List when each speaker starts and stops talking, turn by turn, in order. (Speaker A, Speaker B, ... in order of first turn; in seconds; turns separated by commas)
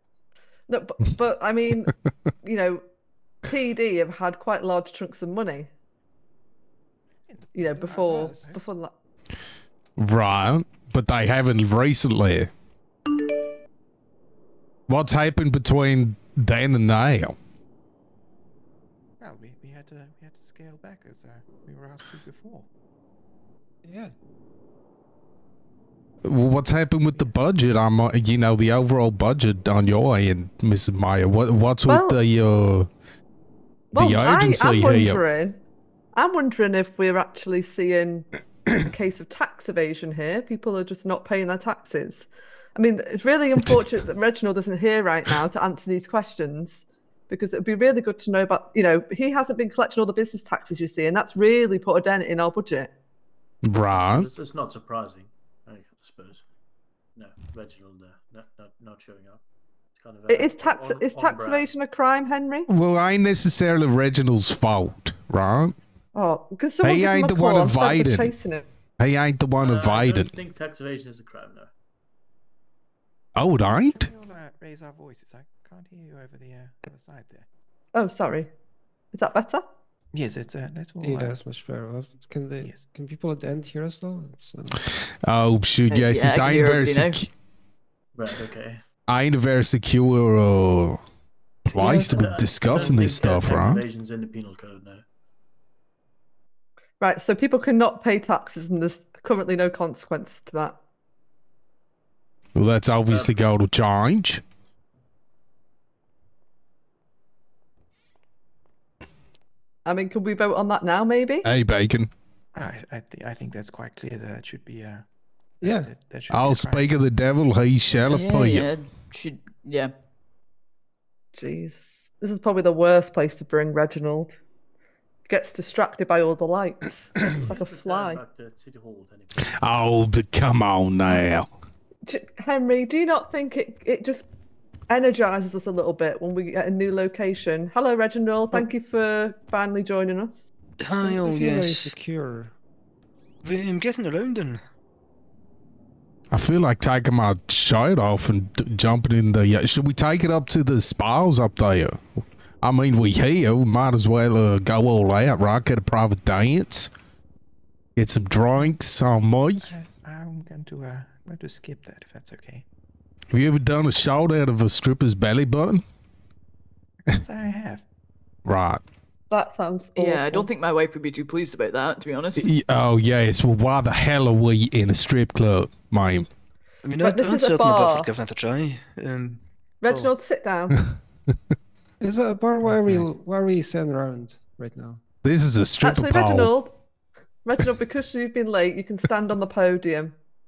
Speaker A: 0.7-2.8, Speaker A: 3.5-5.7, Speaker B: 7.3-8.6, Speaker A: 7.5-8.9, Speaker C: 7.7-8.5, Speaker D: 10.0-12.5, Speaker D: 14.9-17.4, Speaker B: 19.2-22.7, Speaker C: 23.8-24.1, Speaker D: 26.2-32.9, Speaker A: 31.9-32.2, Speaker A: 33.9-35.6, Speaker D: 34.0-35.2, Speaker A: 36.1-38.3, Speaker A: 38.8-52.9, Speaker D: 53.6-54.3, Speaker E: 54.1-56.4, Speaker E: 57.2-59.4, Speaker E: 60.0-61.7, Speaker A: 60.3-62.7, Speaker D: 62.7-65.7, Speaker A: 66.1-68.6, Speaker D: 66.8-68.3, Speaker D: 69.0-70.3, Speaker E: 69.6-71.7, Speaker D: 73.3-74.0, Speaker B: 73.7-77.5, Speaker A: 77.9-78.5, Speaker A: 79.1-79.6, Speaker B: 80.1-81.4, Speaker C: 81.0-84.8, Speaker D: 85.2-87.3, Speaker F: 85.9-87.2, Speaker E: 88.1-88.8, Speaker D: 89.1-91.0, Speaker D: 91.7-93.8, Speaker C: 91.7-92.2, Speaker E: 92.0-95.0, Speaker A: 97.0-100.8, Speaker D: 102.5-104.4, Speaker E: 103.1-103.4, Speaker A: 109.8-111.5, Speaker D: 111.4-112.1, Speaker B: 112.5-115.0, Speaker B: 115.6-116.9, Speaker C: 115.6-115.9, Speaker D: 116.3-118.7, Speaker F: 118.0-119.9, Speaker A: 121.3-124.3, Speaker A: 125.3-128.2, Speaker E: 127.4-129.6, Speaker D: 129.4-131.5, Speaker A: 132.1-134.3, Speaker A: 134.9-140.5, Speaker G: 140.8-141.9, Speaker C: 141.0-142.5, Speaker G: 143.4-144.6, Speaker D: 146.3-152.0, Speaker D: 152.6-156.9, Speaker D: 158.0-159.7, Speaker B: 159.6-162.7, Speaker D: 163.3-165.8, Speaker B: 167.1-167.8, Speaker D: 168.4-168.8, Speaker A: 169.3-170.5, Speaker F: 170.0-172.5, Speaker D: 172.4-176.3, Speaker G: 176.8-180.1, Speaker A: 177.0-178.1, Speaker A: 179.8-180.8, Speaker C: 182.0-185.0, Speaker D: 185.2-186.5, Speaker A: 185.8-186.7, Speaker A: 187.4-190.2